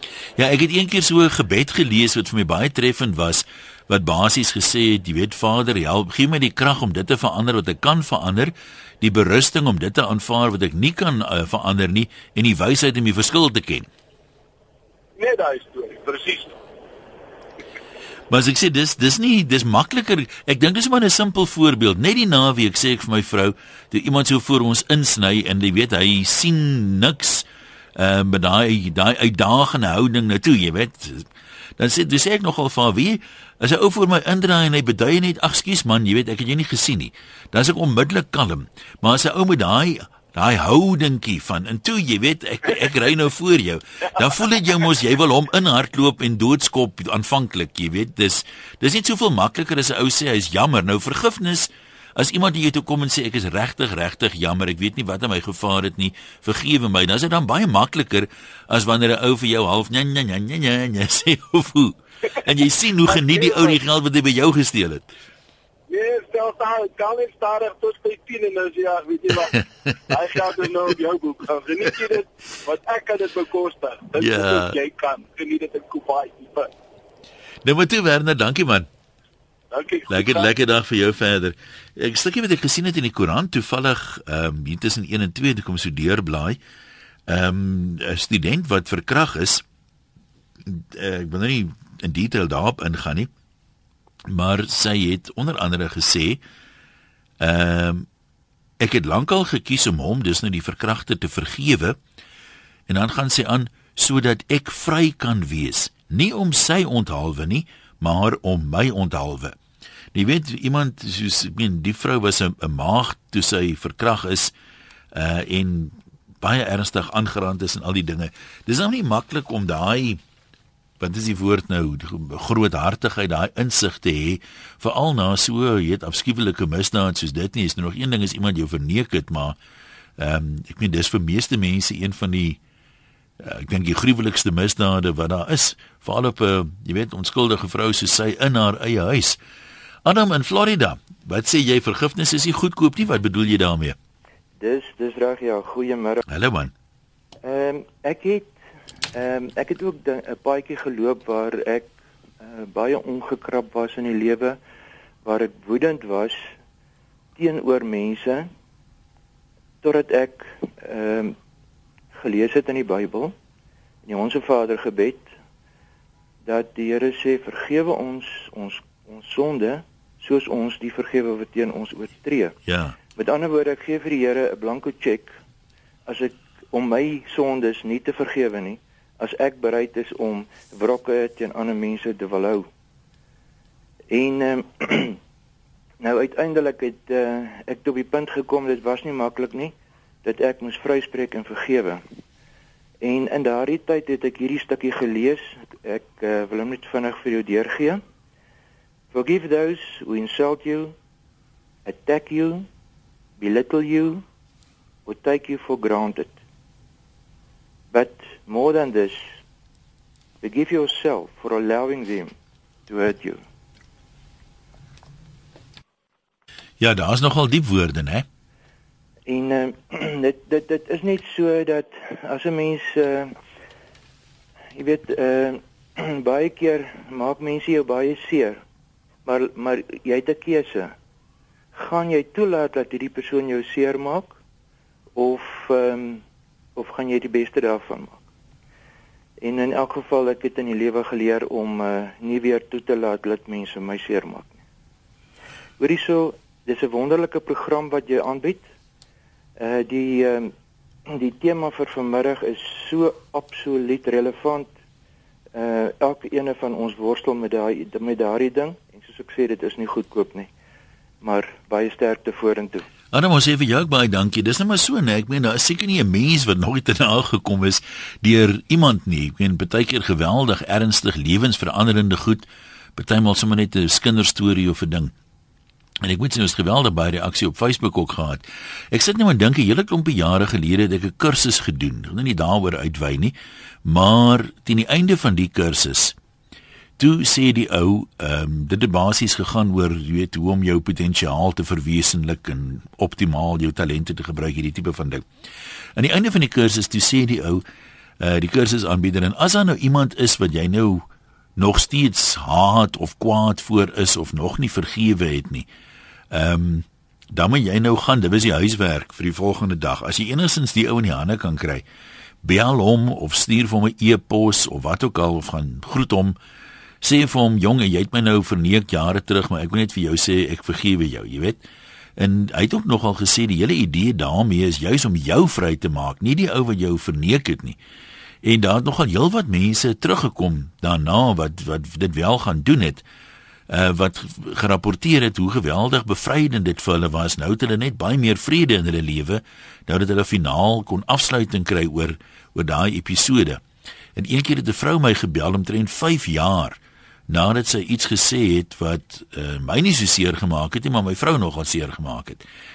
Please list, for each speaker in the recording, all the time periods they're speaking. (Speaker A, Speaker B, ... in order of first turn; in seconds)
Speaker A: 0.4-13.9, 18.3-27.4, 27.9-31.2, 31.8-65.1, 74.2-74.8, 77.6-78.9, 80.1-86.6, 87.3-89.6, 90.7-93.3, 94.3-96.4, 97.4-98.0, 98.8-102.0, 102.9-109.5, 110.1-114.5, 115.1-120.2, 121.0-129.6, 130.2-132.6, 133.4-139.4, 140.0-143.9, 146.3-146.7, 172.7-172.9, 216.8-218.2, 263.1-275.1, 276.0-286.1, 287.0-295.2, 295.9-297.6, 298.2-301.1, 301.6-305.7, 306.3-311.8, 312.4-316.4, 317.0-321.6, 322.2-327.8, 328.4-333.0, 333.7-343.6, 344.1-346.8, 347.3-352.4
Speaker B: 15.2-16.6, 63.1-63.8, 65.9-76.7, 79.7-80.5
Speaker C: 144.6-146.2, 147.4-148.5, 149.1-154.6, 155.2-156.5, 157.3-158.5, 159.8-161.3, 162.1-163.3, 164.1-165.3, 166.4-172.5, 173.2-175.3, 176.1-182.7, 184.1-185.2, 186.0-192.0, 193.0-198.0, 199.1-200.9, 201.8-202.7, 203.4-204.2, 205.1-206.3, 207.9-209.2, 210.4-212.3, 212.9-213.4, 219.3-223.3, 224.7-228.6, 229.2-230.9, 231.7-234.4, 235.2-236.2, 236.8-238.2, 239.4-244.6, 245.8-248.7, 249.6-250.5, 251.1-254.7, 255.5-260.5, 261.2-262.9